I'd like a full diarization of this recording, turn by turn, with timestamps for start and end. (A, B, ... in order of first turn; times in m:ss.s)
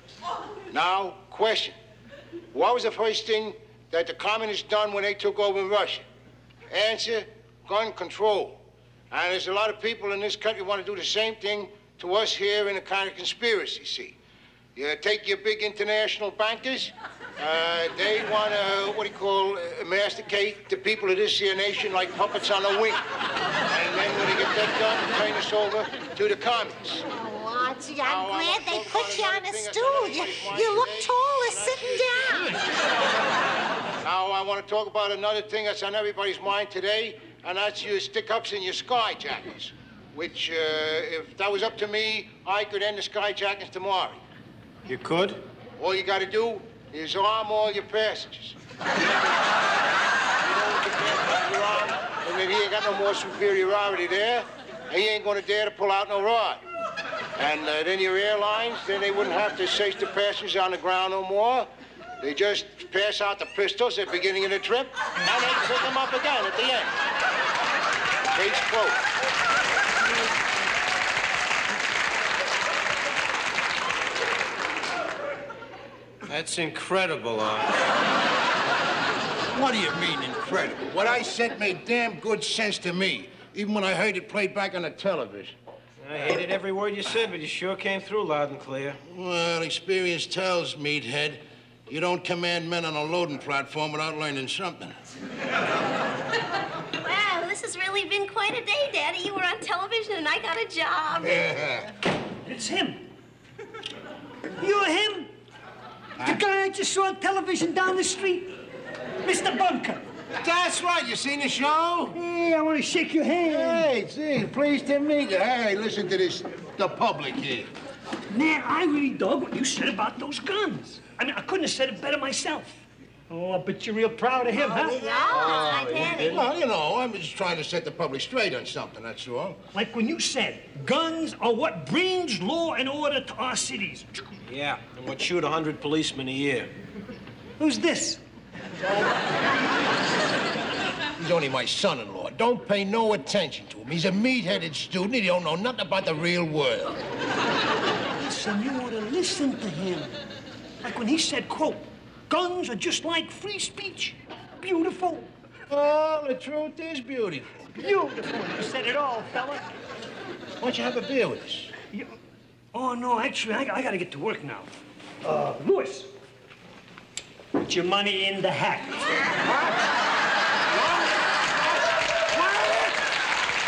0:00.7-0:01.7 A
0:02.5-0:06.0 A
0:06.7-0:08.6 A
0:09.1-0:14.2 A
0:14.7-0:23.0 A
0:23.7-0:27.1 A
0:27.1-0:32.6 B
0:28.0-0:32.6 A
0:34.0-0:44.2 A
0:44.9-0:45.4 C
0:45.8-0:48.6 A
0:50.4-0:56.6 A
0:57.4-1:01.7 A
1:02.2-1:07.0 A
1:08.3-1:09.0 A
1:16.2-1:17.8 C
1:19.5-1:25.5 A
1:26.0-1:29.0 C
1:29.0-1:34.9 A
1:37.0-1:41.5 D
1:41.2-1:41.9 A
1:42.4-1:43.0 E
1:44.6-1:45.3 E
1:46.2-1:48.5 E
1:49.2-1:50.0 E
1:50.4-1:52.2 A
1:52.1-1:53.9 E
1:53.4-1:57.7 A
1:58.3-2:05.2 E
2:04.6-2:06.4 D
2:05.3-2:06.4 C
2:06.2-2:09.6 A
2:09.7-2:14.2 E
2:14.5-2:16.7 C
2:17.6-2:18.2 E
2:21.2-2:27.0 A
2:28.2-2:30.1 E
2:30.8-2:35.3 E
2:35.7-2:37.7 A
2:37.8-2:39.6 E
2:40.6-2:41.7 A
2:42.7-2:44.7 E
2:45.2-2:46.1 E
2:47.5-2:49.2 E
2:49.4-2:49.8 A
2:50.7-2:53.0 A